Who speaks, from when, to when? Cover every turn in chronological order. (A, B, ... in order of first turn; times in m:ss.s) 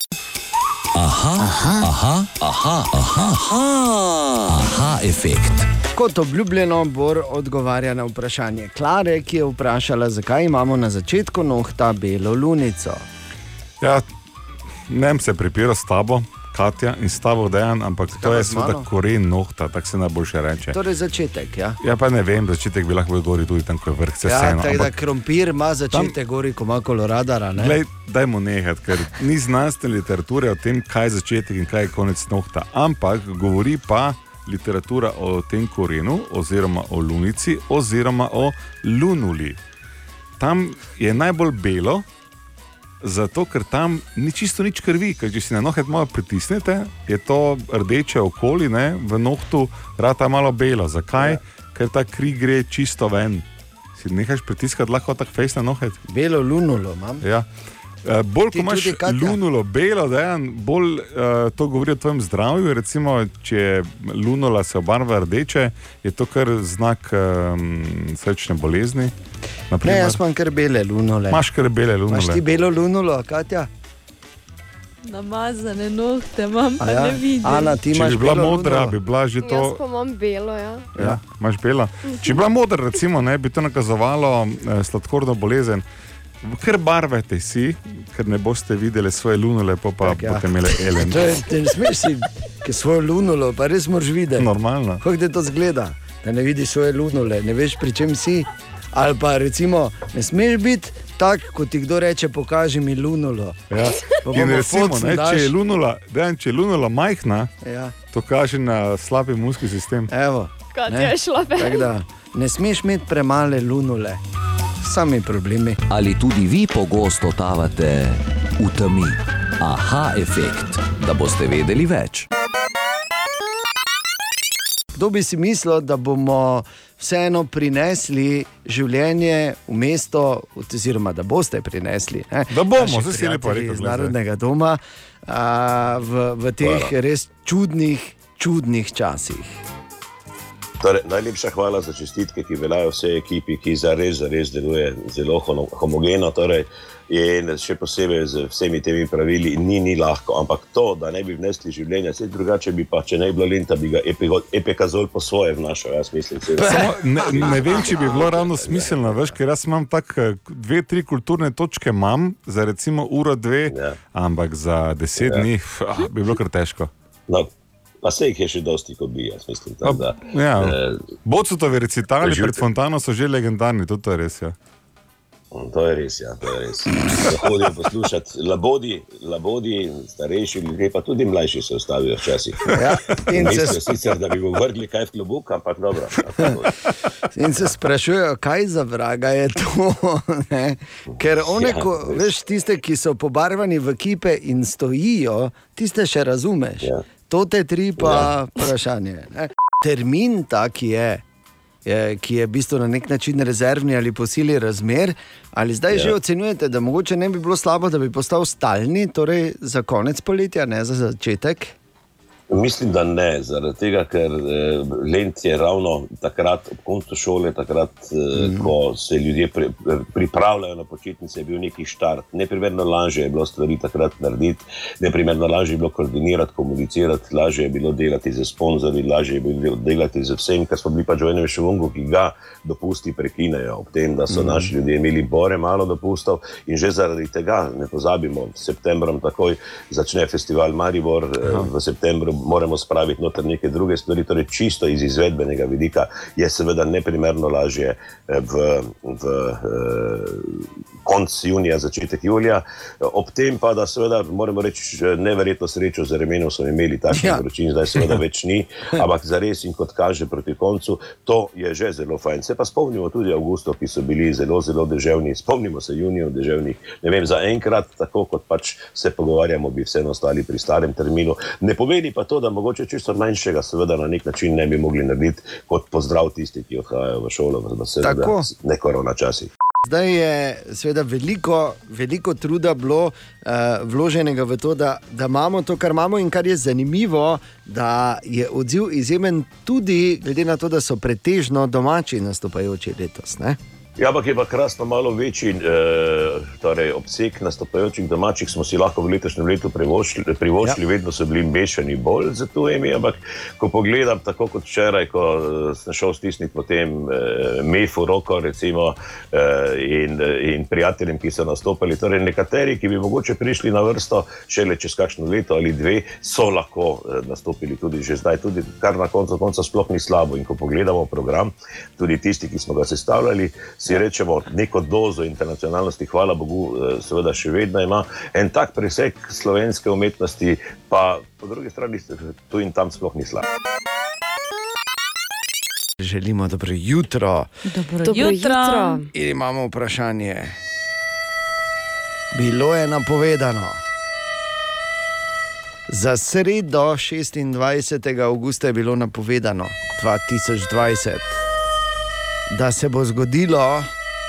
0:00.9-0:05.7 A
0:05.9-0:13.0 B
0:14.9-0:20.8 C
0:18.1-0:18.9 B
0:20.7-0:21.8 B
0:21.8-0:24.9 C
0:24.2-0:27.8 B
0:27.6-0:39.6 C
0:40.4-0:42.0 C
0:43.0-0:53.4 C
0:51.1-0:51.4 B
0:54.0-0:56.0 C
0:56.1-0:57.2 B
0:58.0-1:09.1 C
0:58.5-0:59.4 B
1:09.7-1:10.2 C
1:09.8-1:11.4 B
1:11.3-1:12.4 C
1:12.1-1:13.7 B
1:15.0-1:17.8 D
1:16.8-1:19.0 B
1:17.9-1:19.8 C
1:19.4-1:20.9 E
1:21.0-1:25.8 C
1:22.1-1:22.3 E
1:26.4-1:31.3 C
1:30.0-1:34.5 B
1:34.4-1:35.0 C
1:35.0-1:43.6 B
1:43.7-1:47.5 C
1:44.2-1:45.5 B
1:47.6-1:47.9 B
1:48.1-1:50.1 C
1:50.1-1:54.2 B
1:50.7-1:51.9 E
1:54.8-1:55.8 B
1:55.9-2:02.2 A
2:04.9-2:19.6 B
2:12.5-2:14.1 C
2:16.6-2:16.9 F
2:20.8-2:39.3 F
2:36.6-2:37.6 B
2:36.6-2:46.9 C
2:43.7-2:44.0 F
2:45.2-2:45.5 F
2:48.0-2:51.0 F
2:49.8-2:54.5 C
2:52.2-2:52.6 F
2:55.5-3:06.7 F
3:02.7-3:03.9 B
3:07.3-3:21.2 B
3:11.2-3:12.3 F
3:18.0-3:18.3 F
3:21.8-3:31.7 B
3:32.5-4:39.5 F
3:38.3-3:38.7 B
3:54.3-3:54.7 C
4:01.4-4:01.7 C
4:17.1-4:17.4 B
4:38.0-4:38.5 B
4:39.8-4:53.6 B
4:54.0-5:33.4 F
5:36.0-5:37.5 B
5:37.6-5:39.0 D
5:38.0-5:39.1 E
5:39.1-5:40.6 B
5:42.3-5:43.8 B
5:45.9-5:51.4 B
5:52.5-5:53.9 B